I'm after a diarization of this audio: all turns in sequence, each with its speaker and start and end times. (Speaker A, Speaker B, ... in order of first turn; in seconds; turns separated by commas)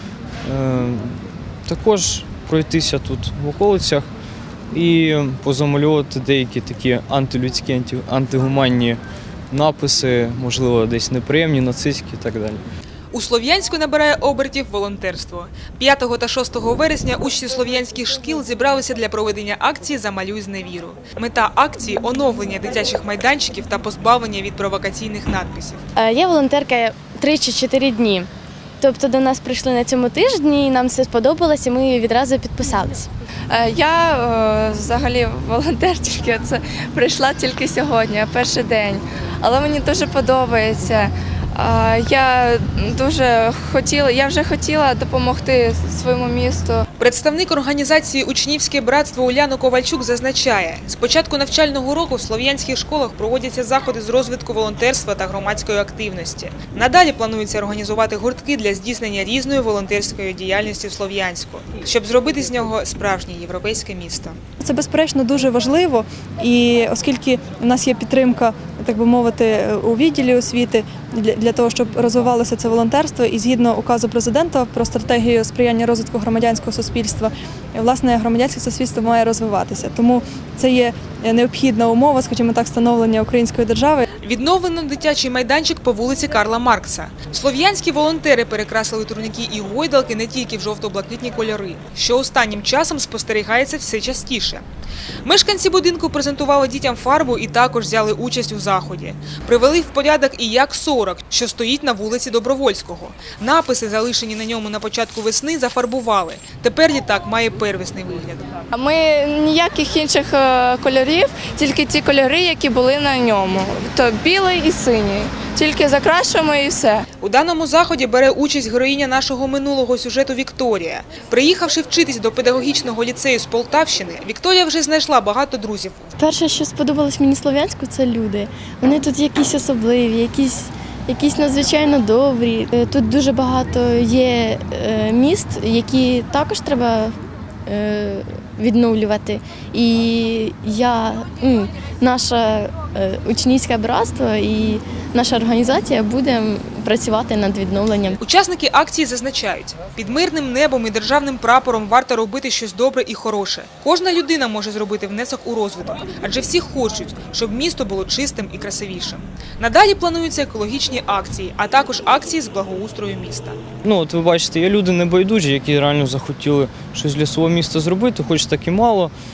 Speaker A: 0.4-4.1, Speaker A: 4.7-9.0, Speaker A: 9.5-12.6, Speaker B: 13.1-25.8, Speaker C: 25.9-28.3, Speaker C: 28.8-33.1, Speaker D: 33.5-46.8, Speaker B: 47.0-64.4, Speaker E: 64.6-84.0, Speaker B: 84.2-94.6, Speaker B: 95.2-108.5, Speaker D: 108.7-117.0, Speaker B: 117.2-126.1, Speaker C: 126.2-148.2, Speaker B: 148.2-163.6, Speaker A: 163.8-169.1